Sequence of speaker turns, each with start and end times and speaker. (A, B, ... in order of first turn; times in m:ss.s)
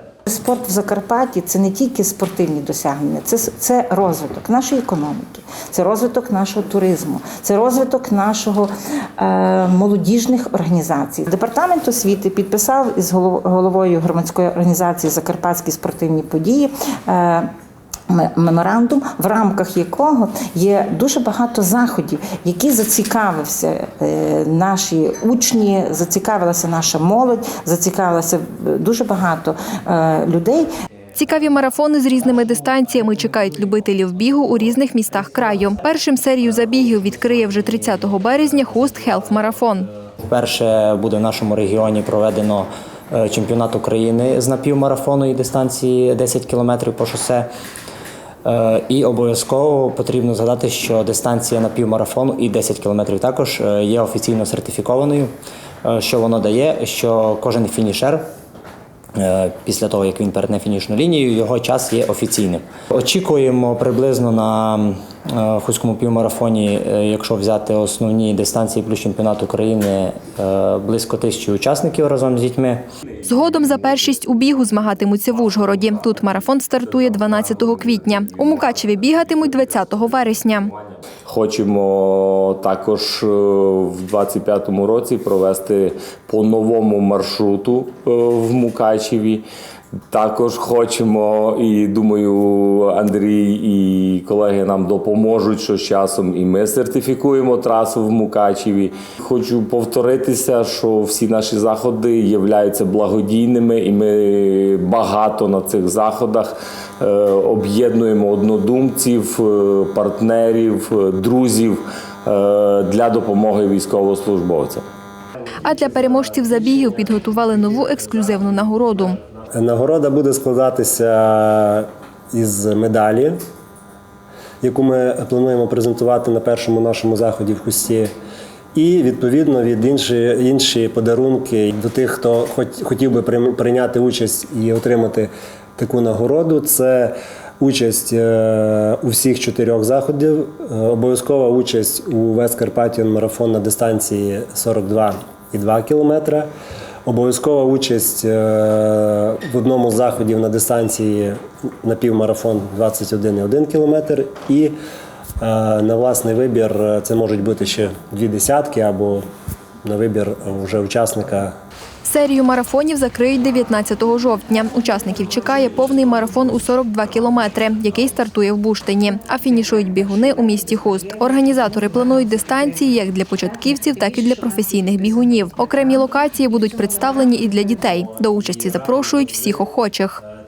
0:00.3-0:17.5 A
0:18.1-0:30.7 A
0:31.2-0:39.9 B
0:40.3-0:47.5 C
0:48.4-0:55.3 C
0:55.8-0:58.3 C
0:59.2-1:12.8 C
1:13.2-1:20.7 B
1:21.2-1:29.4 D
1:30.1-1:54.8 D
1:55.6-1:59.2 B
1:59.6-2:03.4 E
2:04.6-2:08.1 E
2:08.8-2:26.5 E
2:27.1-2:34.8 E
2:35.4-2:39.2 E
2:39.9-2:41.6 E
2:42.0-3:00.2 B